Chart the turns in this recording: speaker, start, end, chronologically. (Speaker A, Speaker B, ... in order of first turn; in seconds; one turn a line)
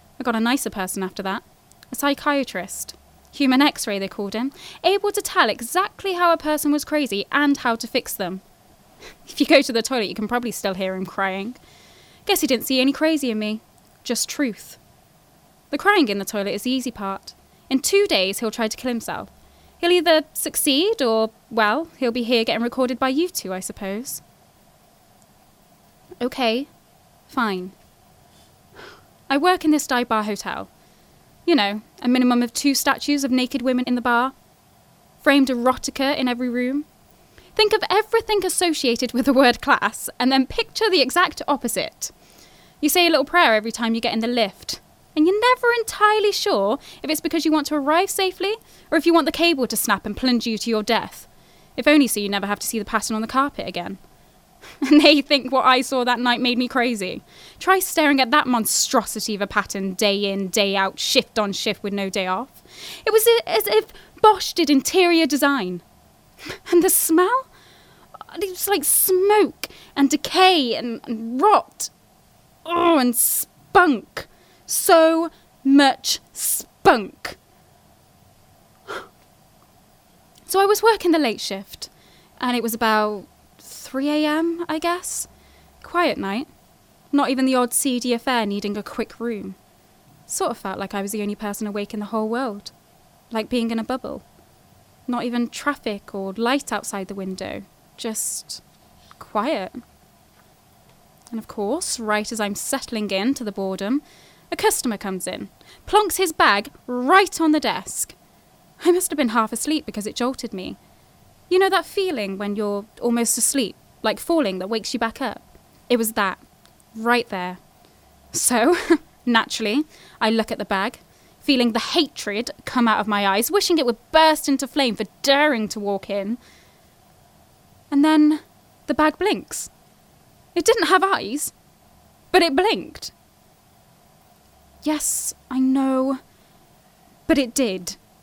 Speaker A: 0.2-8.4
Speaker A: 9.2-11.6
Speaker A: 12.2-14.8
Speaker A: 15.7-24.2
Speaker A: 26.2-26.7
Speaker A: 27.3-27.7
Speaker A: 29.3-30.7
Speaker A: 31.4-34.3
Speaker A: 35.2-36.9
Speaker A: 37.6-42.1
Speaker A: 42.8-54.0
Speaker A: 54.8-65.8
Speaker A: 66.7-67.5
Speaker A: 68.3-71.9
Speaker A: 72.6-77.4
Speaker A: 80.5-81.9
Speaker A: 82.4-85.3
Speaker A: 85.8-86.5
Speaker A: 87.1-89.6
Speaker A: 90.3-92.7
Speaker A: 93.3-94.2
Speaker A: 95.1-98.6
Speaker A: 99.2-99.8
Speaker A: 101.3-108.1
Speaker A: 108.8-110.8
Speaker A: 111.5-116.4
Speaker A: 116.9-117.6
Speaker A: 118.3-126.4
Speaker A: 127.9-129.7
Speaker A: 130.6-131.5
Speaker A: 132.3-133.1
Speaker A: 134.8-136.2
Speaker A: 137.3-138.0